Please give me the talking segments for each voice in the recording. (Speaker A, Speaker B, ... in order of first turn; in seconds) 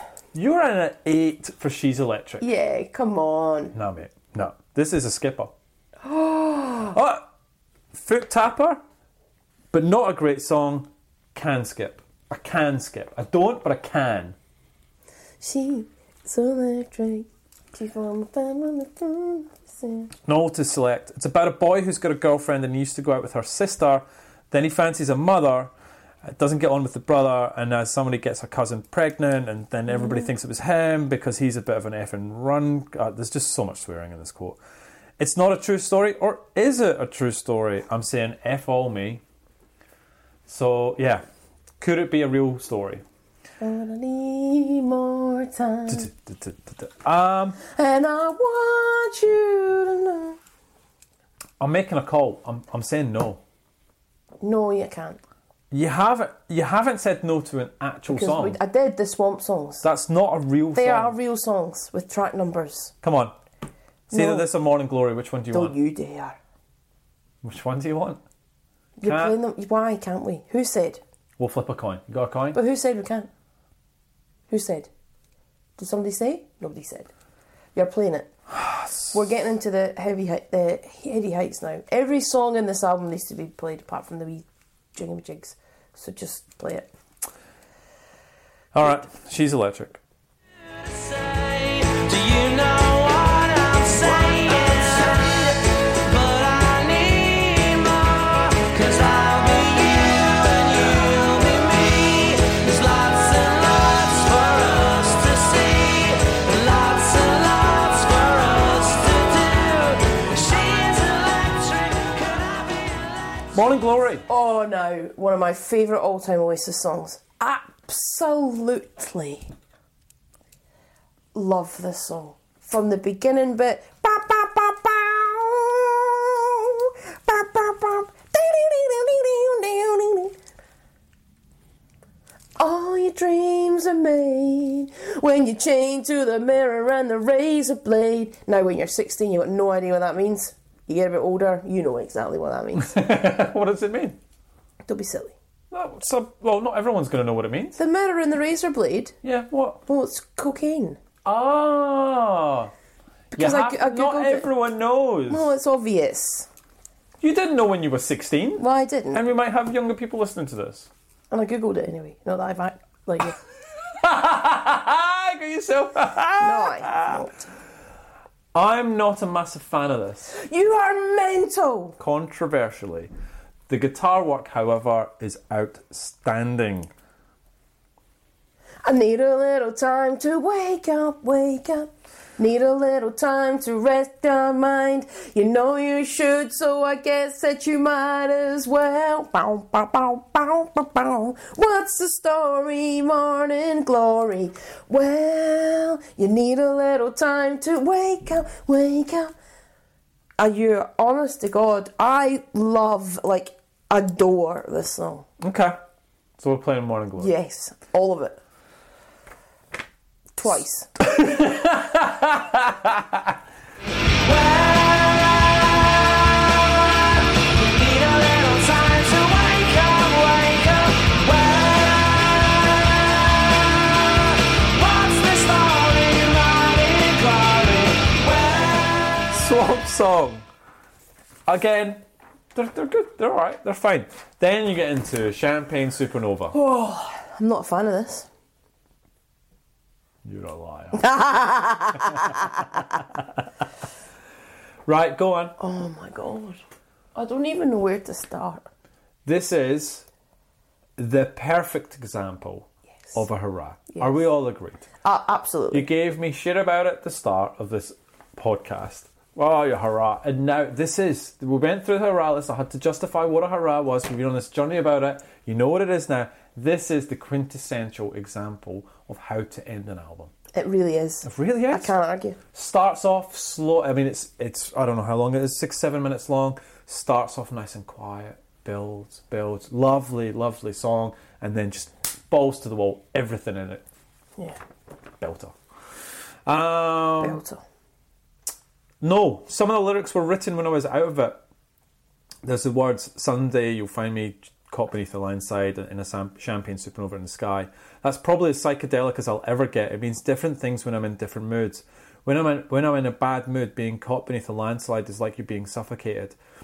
Speaker A: 0.3-2.4, 3.7-5.5, 6.9-7.3, 7.9-8.8, 9.7-14.4, 20.3-25.7, 26.2-34.6, 35.2-39.2, 40.5-41.2, 41.8-43.0, 45.9-47.6, 51.6-53.4, 55.7-58.6, 59.8-61.1, 63.0-63.3, 64.1-65.8, 67.4-68.2, 69.0-69.4, 71.4-72.6, 78.5-79.2, 88.7-90.0, 113.5-114.2, 142.8-144.2, 145.7-147.8, 149.2-149.8, 151.2-152.7, 153.4-155.5, 157.2-160.9, 163.9-167.3, 168.5-170.3, 172.0-173.1, 173.7-176.9, 205.4-205.8, 206.4-207.3, 211.0-213.3, 229.3-230.5, 231.5-232.0, 232.5-236.5, 240.2-241.1, 242.1-243.3, 244.9-245.6, 249.2-250.1, 251.0-254.8, 255.7-270.3, 271.2-271.9, 272.5-283.8, 285.2-285.6, 286.5-287.4, 289.0-291.4, 292.4-306.4
Speaker B: 2.4-3.8, 6.0-7.0, 15.4-20.1, 43.6-46.1, 47.6-50.4, 54.4-55.2, 58.1-59.9, 60.8-62.9, 64.1-64.5, 65.5-66.4, 69.0-71.0, 72.5-73.3, 74.5-74.9, 75.8-77.1, 77.8-78.3, 79.1-86.9, 114.3-119.5, 121.3-130.3, 132.6-143.0, 144.9-145.3, 147.8-149.2, 149.9-151.0, 153.3-154.5, 155.3-156.5, 158.6-159.2, 161.3-163.4, 166.4-167.5, 170.3-172.0, 178.8-199.3, 200.4-205.3, 207.2-208.4, 210.4-210.9, 236.5-238.3, 241.0-242.8, 245.6-246.6, 247.2-248.7, 255.0-255.9, 270.5-272.4, 287.2-287.6
Speaker C: 90.6-113.6, 214.2-229.3